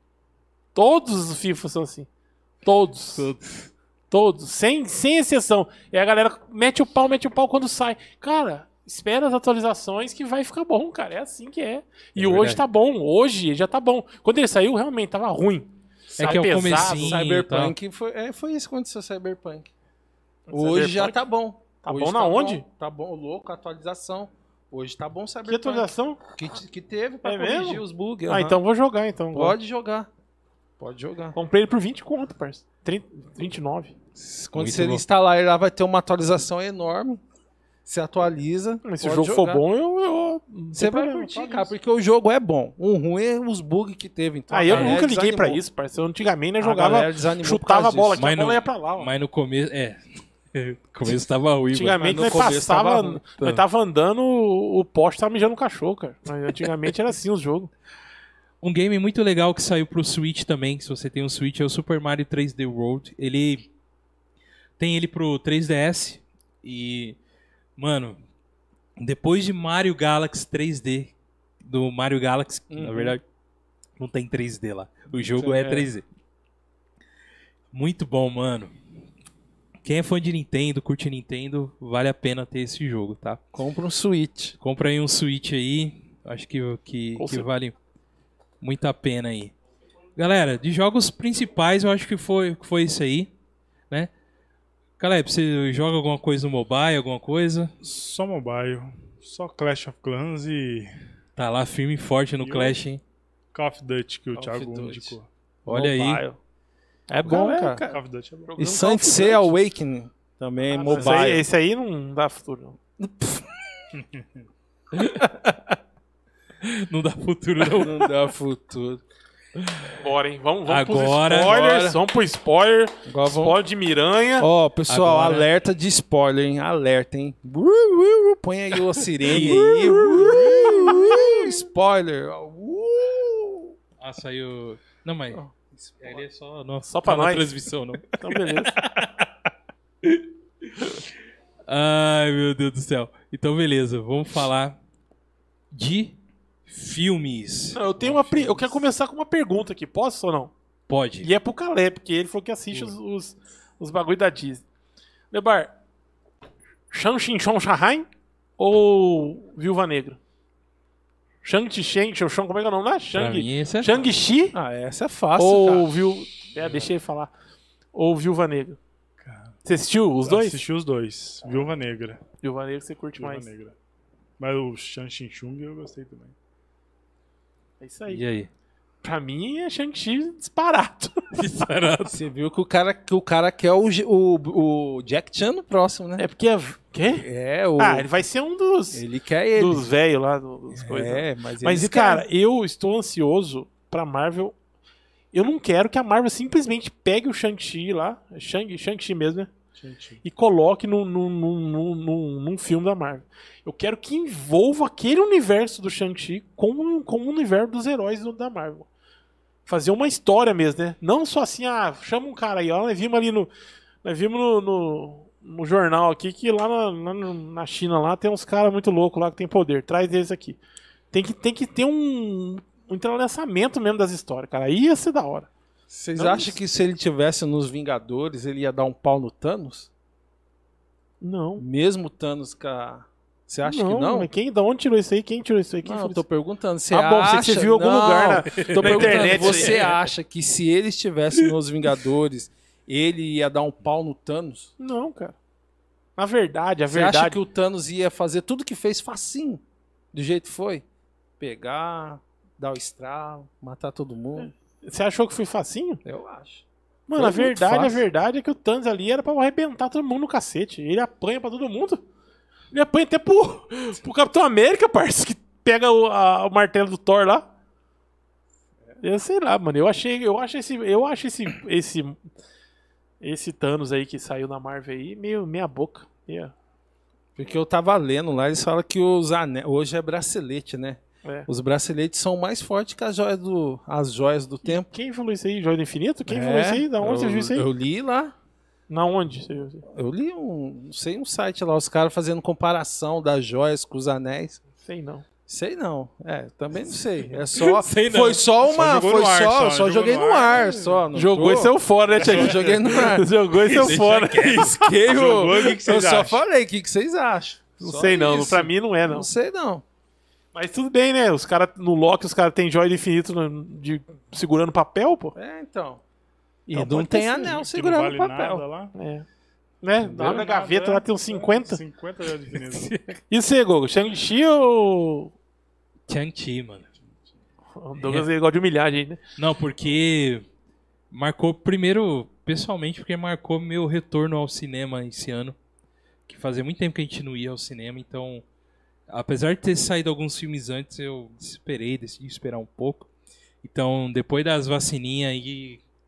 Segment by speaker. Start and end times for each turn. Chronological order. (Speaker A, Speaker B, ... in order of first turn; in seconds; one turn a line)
Speaker A: 0.8-2.1
Speaker A: 2.6-3.3
Speaker B: 3.2-3.7
Speaker A: 4.1-17.2
Speaker B: 12.2-12.6
Speaker C: 16.2-19.7
Speaker B: 16.2-17.7
Speaker A: 20.5-21.2
Speaker C: 20.5-28.6
Speaker A: 21.8-22.6
Speaker A: 25.5-26.2
Speaker A: 27.2-29.6
Speaker C: 29.3-30.1
Speaker C: 30.8-31.4
Speaker A: 31.4-33.9
Speaker C: 34.1-37.2
Speaker B: 34.5-35.0
Speaker C: 37.9-39.6
Speaker A: 38.9-41.7
Speaker C: 40.7-45.6
Speaker A: 44.5-49.1
Speaker B: 44.7-45.0
Speaker C: 46.6-48.2
Speaker B: 48.2-50.0
Speaker B: 50.5-52.6
Speaker A: 51.7-57.7
Speaker C: 52.0-53.2
Speaker B: 58.6-63.6
Speaker B: 64.8-67.2
Speaker B: 67.8-68.2
Speaker B: 69.0-73.2
Speaker C: 72.7-73.2
Speaker B: 74.0-76.0
Speaker C: 75.3-75.9
Speaker B: 77.7-78.7
Speaker B: 79.8-83.4
Speaker C: 83.5-84.6
Speaker B: 84.6-87.8
Speaker A: 87.2-87.5
Speaker B: 88.6-89.5
Speaker B: 90.2-93.3
Speaker B: 95.0-97.7
Speaker D: 97.8-100.9
Speaker B: 101.4-103.0
Speaker D: 102.4-102.8
Speaker D: 103.5-105.3
Speaker C: 104.3-106.4
Speaker B: 105.7-106.2
Speaker A: 107.1-109.5
Speaker C: 107.2-107.8
Speaker D: 107.8-108.5
Speaker C: 108.6-111.4
Speaker A: 110.7-112.8
Speaker C: 113.0-113.8
Speaker D: 114.0-114.2
Speaker B: 114.9-115.3
Speaker C: 115.2-115.5
Speaker B: 116.6-118.1
Speaker C: 117.7-119.0
Speaker B: 119.5-120.0
Speaker A: 120.0-124.5
Speaker B: 120.7-121.6
Speaker C: 121.3-122.0
Speaker C: 123.0-123.6
Speaker C: 124.4-133.7
Speaker B: 124.9-125.5
Speaker B: 129.2-130.4
Speaker A: 129.6-131.2
Speaker B: 134.0-135.4
Speaker C: 135.3-136.2
Speaker B: 136.0-139.2
Speaker A: 136.9-137.5
Speaker A: 138.2-138.8
Speaker B: 140.0-141.1
Speaker B: 141.7-144.8
Speaker B: 145.7-147.8
Speaker A: 147.8-150.5
Speaker B: 150.9-151.3
Speaker A: 151.2-154.6
Speaker A: 155.3-155.7
Speaker A: 156.9-158.1
Speaker A: 158.6-160.2
Speaker A: 161.4-164.6
Speaker B: 163.2-164.1
Speaker C: 164.5-165.9
Speaker A: 165.4-167.3
Speaker A: 167.9-168.8
Speaker D: 169.2-169.6
Speaker A: 169.7-170.6
Speaker D: 170.2-172.2
Speaker A: 172.4-173.5
Speaker D: 173.2-173.7
Speaker D: 174.4-176.3
Speaker A: 177.8-178.2
Speaker B: 178.1-178.5
Speaker A: 179.0-181.3
Speaker B: 181.3-182.2
Speaker C: 182.1-186.3
Speaker A: 186.2-187.3
Speaker C: 187.1-188.1
Speaker A: 187.8-189.0
Speaker C: 188.9-189.9
Speaker A: 189.6-194.6
Speaker C: 190.7-192.2
Speaker A: 195.3-199.5
Speaker D: 199.8-200.2
Speaker A: 200.2-208.9
Speaker A: 209.7-213.5
Speaker A: 214.0-220.6
Speaker A: 221.1-225.5
Speaker C: 225.9-229.9
Speaker A: 226.2-226.6
Speaker A: 231.2-231.6
Speaker C: 231.6-234.3
Speaker A: 233.6-236.2
Speaker C: 235.8-244.7
Speaker A: 236.9-239.8
Speaker B: 238.6-240.0
Speaker A: 244.8-245.3
Speaker A: 246.2-247.4
Speaker C: 246.9-249.6
Speaker C: 250.1-250.8
Speaker C: 251.4-254.5
Speaker A: 254.8-256.0
Speaker C: 256.1-256.6
Speaker A: 257.1-262.0
Speaker C: 257.2-258.0
Speaker A: 262.7-267.5
Speaker A: 269.0-272.2
Speaker A: 273.2-276.5
Speaker C: 277.4-284.9
Speaker A: 284.6-287.7
Speaker C: 286.3-288.3
Speaker A: 288.9-289.8
Speaker C: 289.9-294.6
Speaker A: 294.9-295.2
Speaker C: 295.5-303.3
Speaker B: 297.5-298.4
Speaker D: 298.6-301.0
Speaker A: 301.1-305.0
Speaker D: 302.1-302.8
Speaker B: 303.7-304.8
Speaker C: 304.5-309.8
Speaker D: 305.1-306.4
Speaker A: 307.8-309.3
Speaker A: 310.5-315.3
Speaker C: 315.4-316.0
Speaker A: 316.7-317.5
Speaker C: 316.7-318.6
Speaker D: 317.4-318.9
Speaker A: 319.0-319.2
Speaker A: 319.8-321.8
Speaker D: 320.0-322.9
Speaker B: 322.7-323.1
Speaker A: 323.3-325.3
Speaker B: 326.1-326.9
Speaker A: 327.8-329.2
Speaker B: 328.0-328.3
Speaker B: 329.4-330.4
Speaker B: 331.1-335.6
Speaker B: 336.3-338.4
Speaker B: 339.1-343.1
Speaker B: 343.6-345.8